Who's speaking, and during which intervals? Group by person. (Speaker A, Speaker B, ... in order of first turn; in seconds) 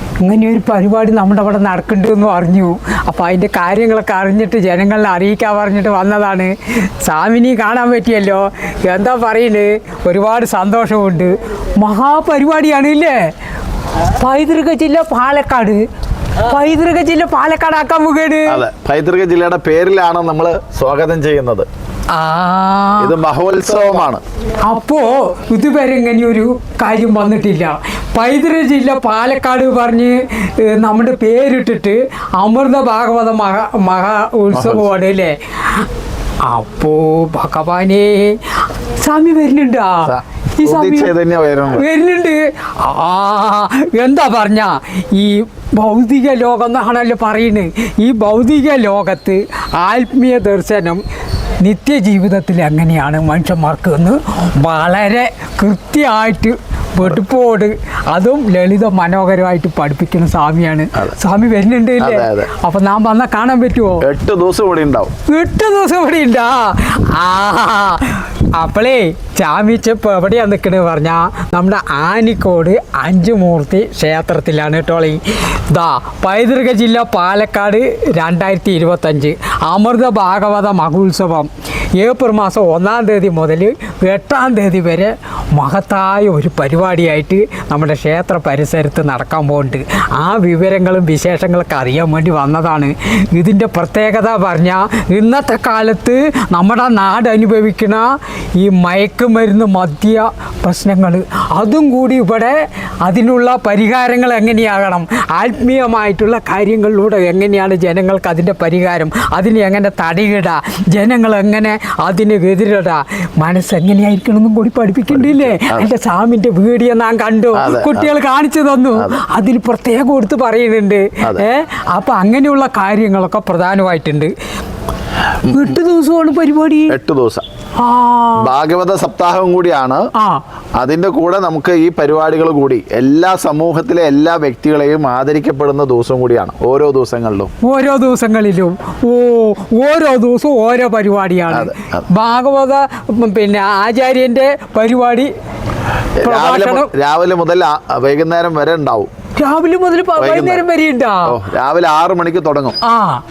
Speaker A: 0.2-13.3, 14.0-15.8, 16.4-18.6, 22.1-23.1, 24.6-35.9, 36.4-41.1, 41.7-51.0, 51.6-64.1, 65.3-124.3, 125.5-127.0, 127.8-128.5, 130.2-130.4, 137.6-145.3, 146.2-146.9, 149.4-151.3, 152.8-153.2
Speaker B: 18.5-21.7, 23.0-24.2, 34.5-34.9, 40.1-41.9, 62.0-62.5, 64.0-65.1, 115.1-115.9, 117.5-118.1, 119.0-119.2, 121.2-121.5, 125.5-125.8, 126.9-127.5, 128.4-130.0, 130.8-137.5, 141.5-142.0, 146.2-149.1, 150.2-150.7, 151.3-152.8